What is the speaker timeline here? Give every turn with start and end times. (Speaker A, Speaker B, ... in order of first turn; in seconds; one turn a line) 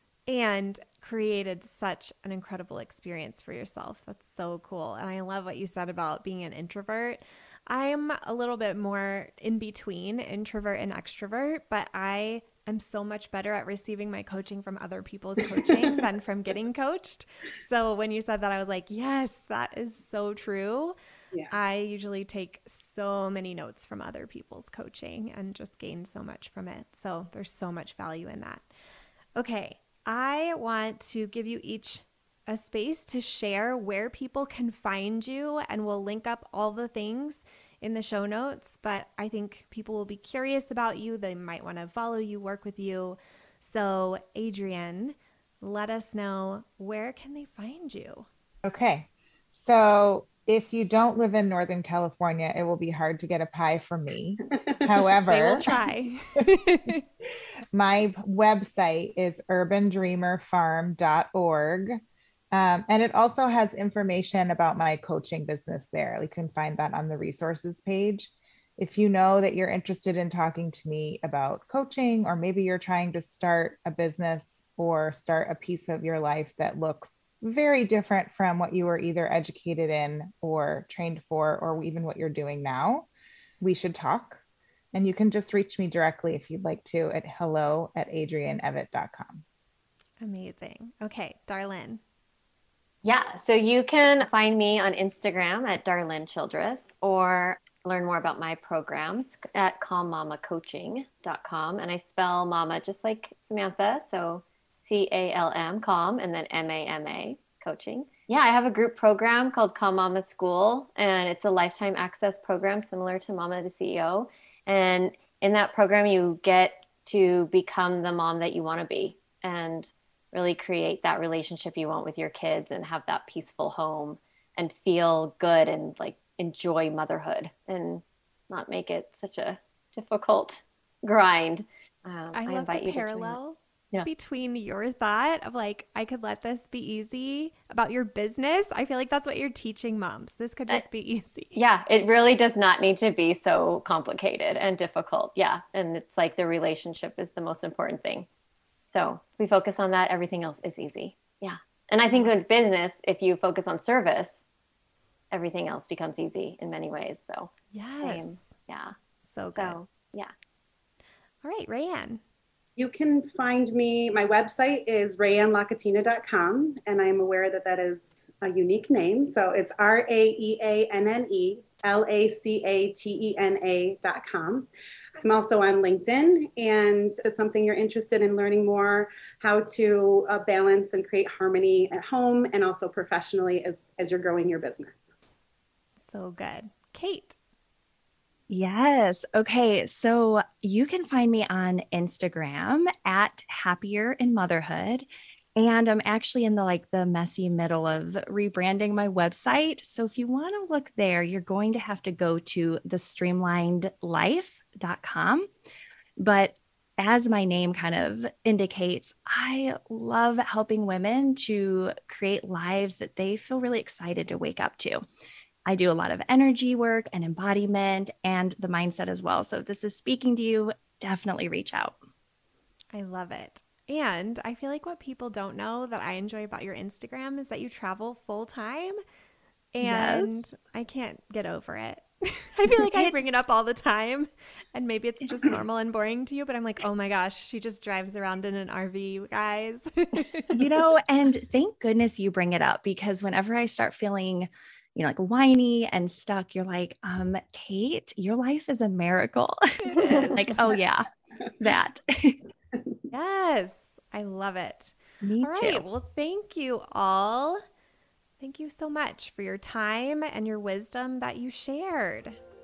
Speaker A: 0.3-20.9
Speaker A: 21.5-28.7
Speaker A: 29.4-48.3
Speaker B: 48.6-55.6
Speaker A: 55.3-57.0
Speaker B: 57.7-62.0
Speaker B: 62.5-83.1
Speaker B: 83.6-84.4
Speaker B: 84.9-89.4
Speaker A: 90.2-92.0
Speaker C: 93.0-133.4
Speaker A: 132.3-141.6
Speaker C: 141.5-148.3
Speaker C: 148.9-154.3
Speaker C: 155.3-157.5
Speaker A: 157.7-158.5
Speaker C: 158.0-158.9
Speaker A: 159.2-159.8
Speaker C: 159.6-160.3
Speaker A: 161.4-162.2
Speaker D: 162.8-174.7
Speaker D: 175.2-185.1
Speaker A: 186.0-187.4
Speaker E: 188.5-195.1
Speaker E: 195.6-205.5
Speaker E: 206.2-215.0
Speaker E: 215.7-222.0
Speaker A: 222.9-229.0
Speaker A: 229.7-240.6
Speaker E: 229.8-230.3
Speaker E: 232.7-233.3
Speaker E: 240.5-251.1
Speaker A: 249.8-250.6
Speaker E: 251.6-252.4
Speaker A: 253.1-257.6
Speaker E: 255.2-255.8
Speaker A: 258.4-262.4